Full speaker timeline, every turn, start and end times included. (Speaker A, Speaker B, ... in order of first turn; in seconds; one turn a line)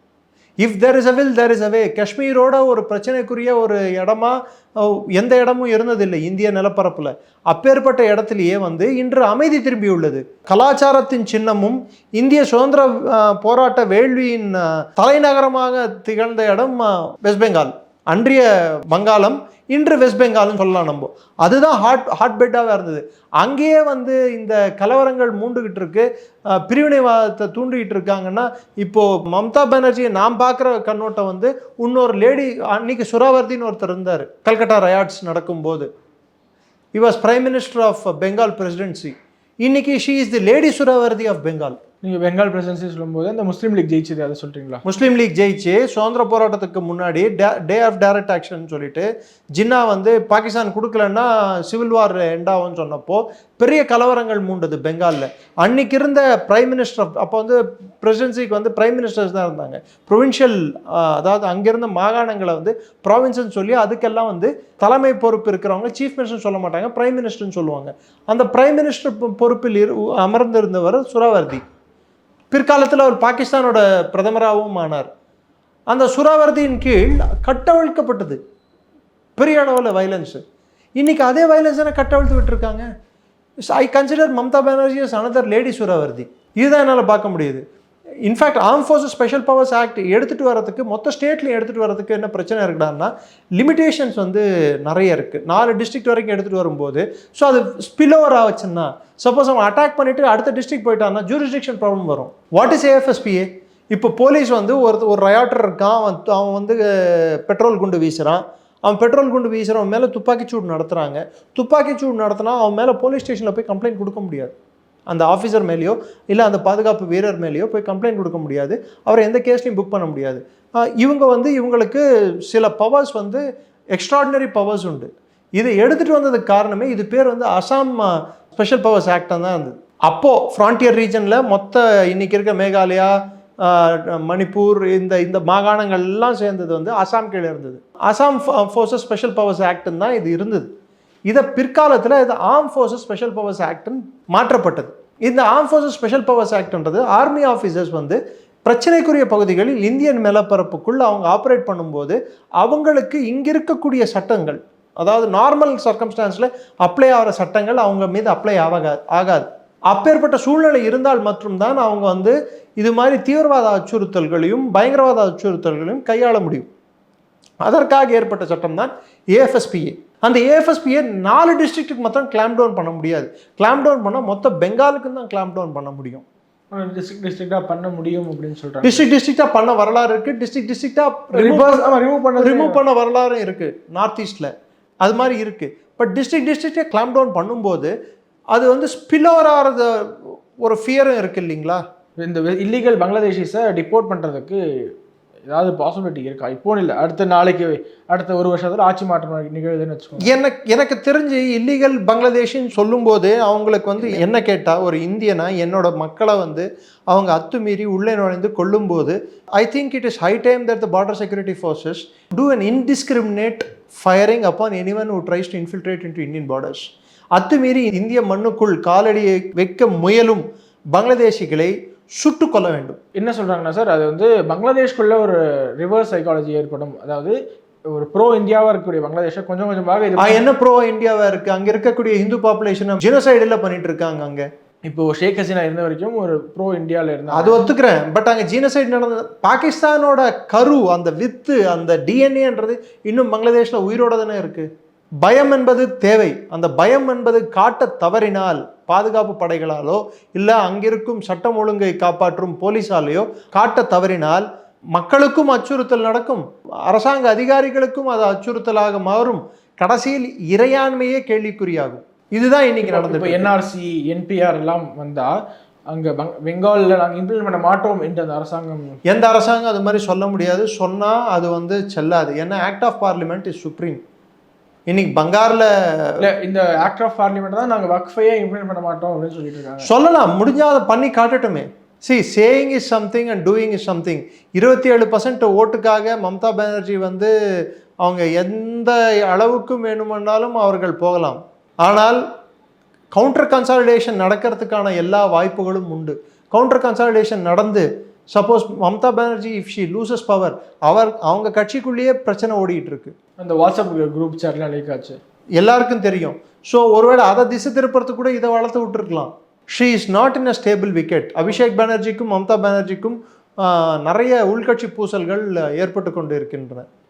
Speaker A: 0.6-35.9
Speaker A: 36.9-41.8
Speaker B: 42.0-44.8
Speaker A: 44.8-71.6
Speaker A: 72.5-75.1
Speaker A: 75.9-78.4
Speaker A: 79.4-80.4
Speaker A: 81.0-82.9
Speaker A: 83.7-87.6
Speaker A: 88.2-114.5
Speaker A: 115.1-123.4
Speaker A: 123.9-140.7
Speaker A: 141.3-166.7
Speaker A: 167.6-176.2
Speaker B: 176.7-179.1
Speaker A: 178.8-184.5
Speaker B: 181.3-182.8
Speaker A: 185.0-187.9
Speaker A: 188.5-191.8
Speaker B: 192.2-194.6
Speaker B: 195.5-200.3
Speaker A: 200.2-223.0
Speaker B: 223.2-227.3
Speaker B: 227.9-230.4
Speaker A: 230.2-234.4
Speaker B: 234.8-237.7
Speaker A: 237.3-244.7
Speaker A: 245.2-263.5
Speaker B: 262.8-265.3
Speaker B: 265.9-268.9
Speaker A: 269.1-274.0
Speaker A: 274.9-276.2
Speaker B: 276.2-279.9
Speaker A: 279.8-287.3
Speaker A: 288.0-292.2
Speaker A: 293.1-303.1
Speaker B: 303.4-305.2
Speaker A: 305.6-316.9